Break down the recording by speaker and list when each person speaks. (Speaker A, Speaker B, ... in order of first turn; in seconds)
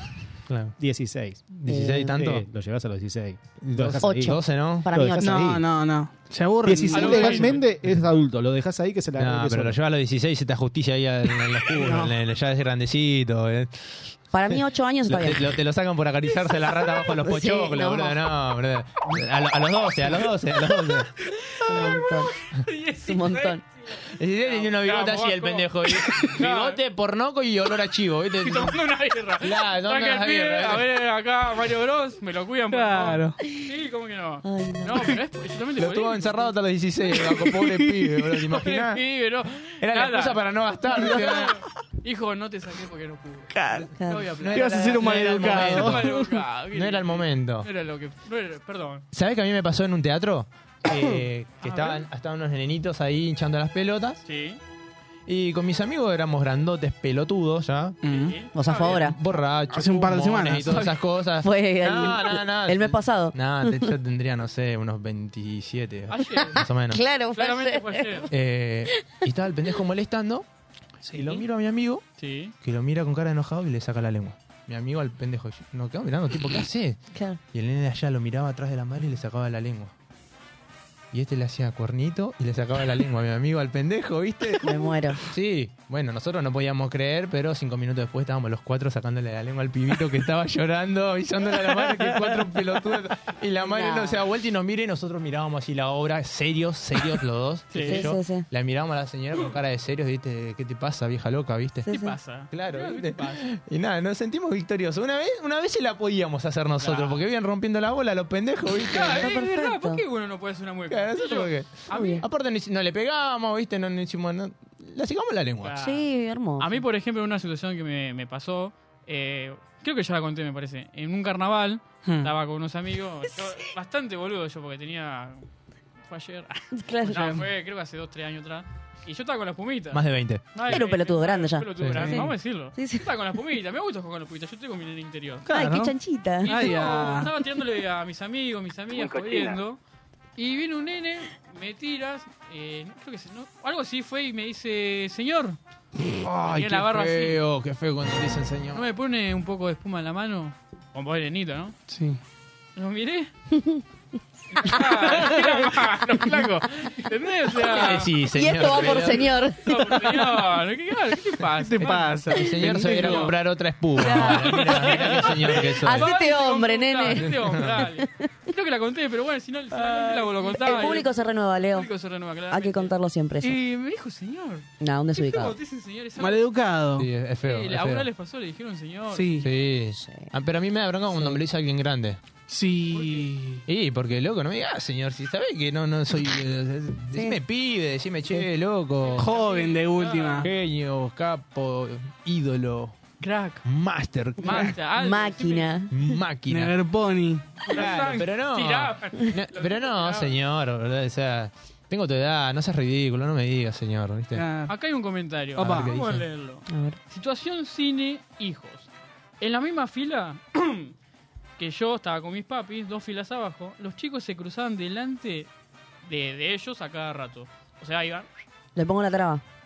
Speaker A: 0.5-0.8, 1.5-2.5, 3.6-5.0, 9.2-21.1, 24.1-28.8, 29.4-30.9, 35.8-39.0, 39.8-41.6, 44.4-46.1, 46.7-47.7, 49.1-54.2, 55.3-58.0, 58.8-67.0, 68.3-70.5, 71.1-72.0, 72.6-77.0, 77.5-79.9, 81.1-101.9, 102.5-109.3, 110.9-115.8, 129.9-130.4, 131.8-132.2, 146.1-148.8, 157.7-159.3, 161.8-166.1, 167.2-167.8, 177.0-178.1, 179.4-182.2, 183.7-189.3, 190.4-193.0, 193.6-194.7, 195.9-196.8, 197.7-204.4, 205.7-206.3
Speaker B: 0.8-1.5, 2.1-5.7, 6.6-9.8
Speaker C: 1.7-2.2, 4.0-5.5, 11.8-12.2, 14.3-15.5, 17.1-18.2, 21.7-22.3, 23.0-23.6, 34.4-35.2, 43.5-44.4, 58.5-59.2, 61.4-63.9, 66.9-68.3, 77.1-77.4, 84.6-85.2, 93.6-94.2, 97.8-98.5, 101.9-102.2, 109.1-110.0, 111.9-112.2, 115.8-116.8, 126.7-127.4, 130.7-133.1, 135.5-136.6, 153.5-153.8, 154.7-155.5, 158.2-160.2, 164.0-168.1, 169.7-171.9, 172.5-173.6, 174.8-175.6, 179.9-180.3, 181.1-181.4, 187.1-187.4, 194.6-196.2, 206.7-207.0, 218.8-219.4
Speaker D: 5.2-7.5, 32.7-33.4, 44.5-46.4, 58.0-58.4, 59.7-60.9, 71.1-71.3, 122.0-122.3, 135.5-135.9, 136.5-137.3, 151.9-152.2, 161.6-163.3, 176.2-177.1, 179.1-179.5, 182.5-183.6, 189.2-190.5, 196.5-197.6, 204.3-204.7, 205.6-205.9
Speaker E: 6.9-7.7, 21.5-26.8, 28.4-36.5, 38.5-40.4, 40.9-49.0, 51.6-52.1, 54.2-54.6, 58.1-59.0, 66.1-66.6, 67.3-68.3, 72.2-72.5, 97.7-98.0, 101.9-103.5, 106.8-107.3, 108.9-112.2, 115.6-116.0, 116.6-125.5, 126.1-135.5, 136.4-139.8, 140.4-145.6, 146.4-147.4, 148.7-151.8, 152.8-153.3, 154.5-158.1, 158.7-159.0, 159.6-163.3, 164.1-171.1, 171.7-176.4, 177.4-179.4, 182.9-183.3, 189.0-190.5, 193.2-193.7, 194.4-195.7, 197.7-200.3, 204.7-208.9, 209.4-210.9, 211.6-215.5, 216.0-218.3